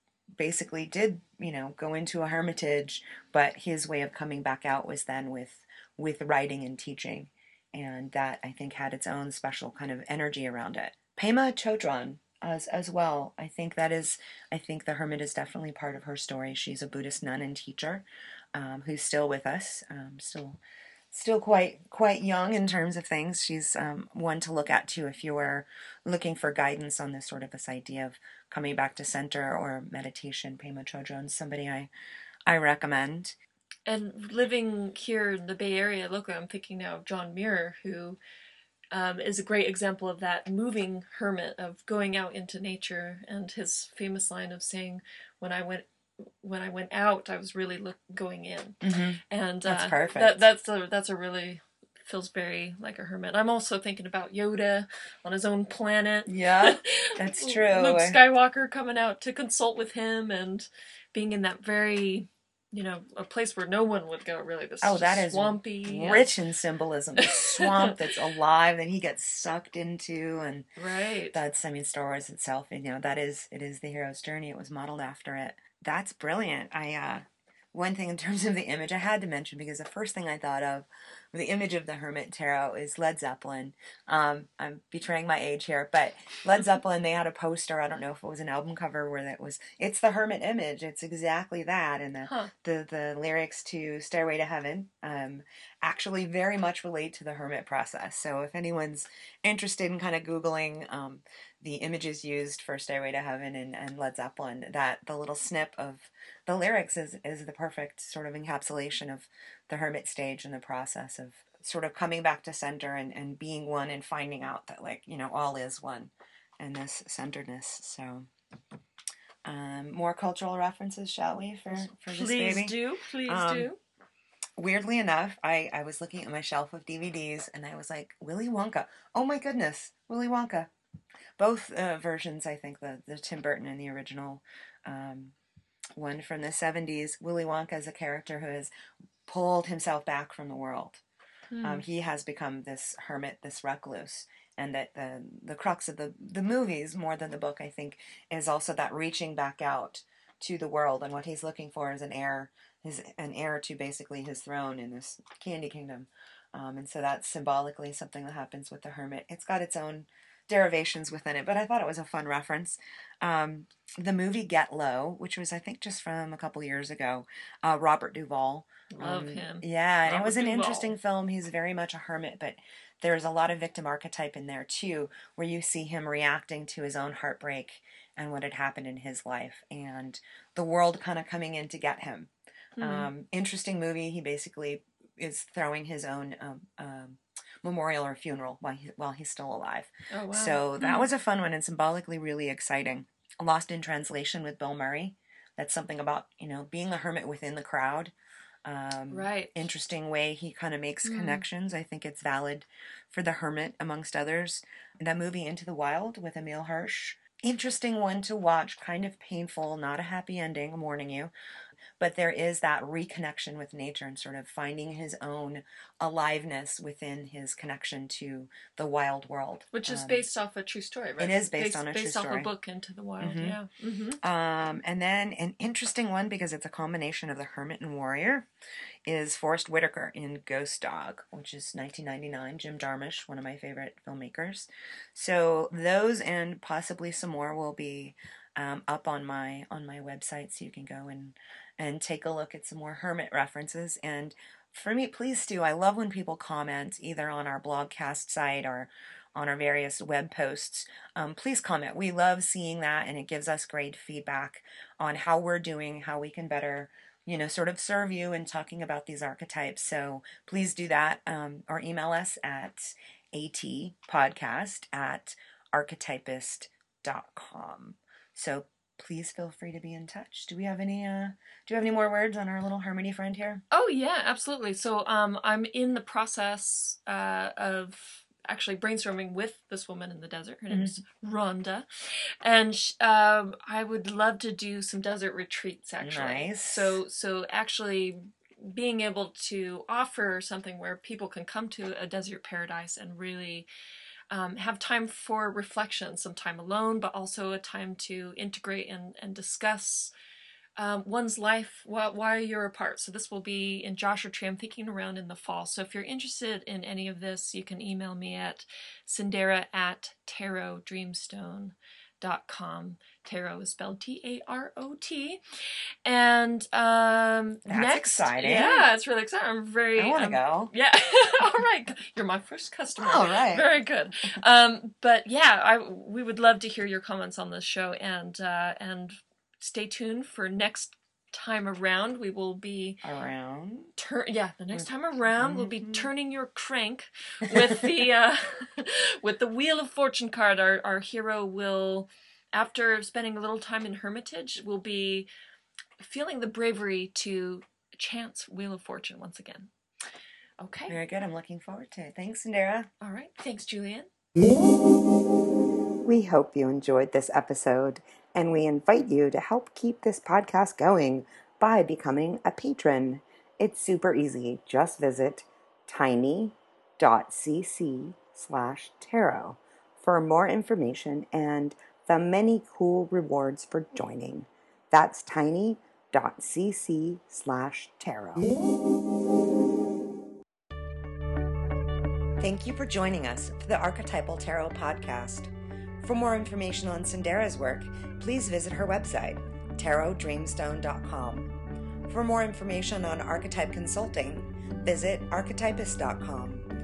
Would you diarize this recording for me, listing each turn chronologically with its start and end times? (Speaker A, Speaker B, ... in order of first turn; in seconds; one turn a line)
Speaker A: 0.4-20.6
Speaker A: 21.1-31.9
Speaker A: 32.5-33.4
Speaker B: 33.9-38.2
Speaker B: 38.9-45.9
Speaker B: 46.4-66.3
Speaker A: 48.8-50.4
Speaker A: 56.3-58.2
Speaker A: 64.8-70.7
Speaker B: 67.2-68.0
Speaker B: 70.8-71.4
Speaker A: 71.3-118.3
Speaker B: 92.2-92.5
Speaker A: 119.5-123.7
Speaker B: 121.7-123.8
Speaker A: 124.6-130.7
Speaker A: 131.4-135.3
Speaker A: 136.0-138.7
Speaker A: 139.3-141.0
Speaker B: 141.5-141.8
Speaker A: 141.6-198.1
Speaker B: 168.9-170.9
Speaker B: 182.8-183.1
Speaker B: 190.1-191.1
Speaker A: 198.7-211.3
Speaker B: 199.1-199.6
Speaker B: 201.1-201.4
Speaker A: 212.0-220.2
Speaker B: 219.7-224.2
Speaker A: 221.2-222.5
Speaker A: 223.2-223.6
Speaker A: 224.2-228.5
Speaker A: 229.1-273.6
Speaker B: 273.7-281.9
Speaker A: 280.7-281.0
Speaker B: 282.4-293.7
Speaker A: 286.0-287.0
Speaker B: 294.3-300.1
Speaker B: 300.8-315.4
Speaker B: 316.1-333.0
Speaker A: 317.7-318.9
Speaker A: 320.0-320.7
Speaker A: 323.0-323.7
Speaker A: 333.0-333.9
Speaker B: 334.0-345.3
Speaker A: 334.7-336.1
Speaker A: 337.5-337.9
Speaker B: 346.0-349.7
Speaker B: 350.6-351.0
Speaker A: 350.9-352.9
Speaker B: 353.0-354.1
Speaker A: 356.1-378.6
Speaker A: 382.4-385.5
Speaker A: 386.0-391.5
Speaker A: 392.1-396.6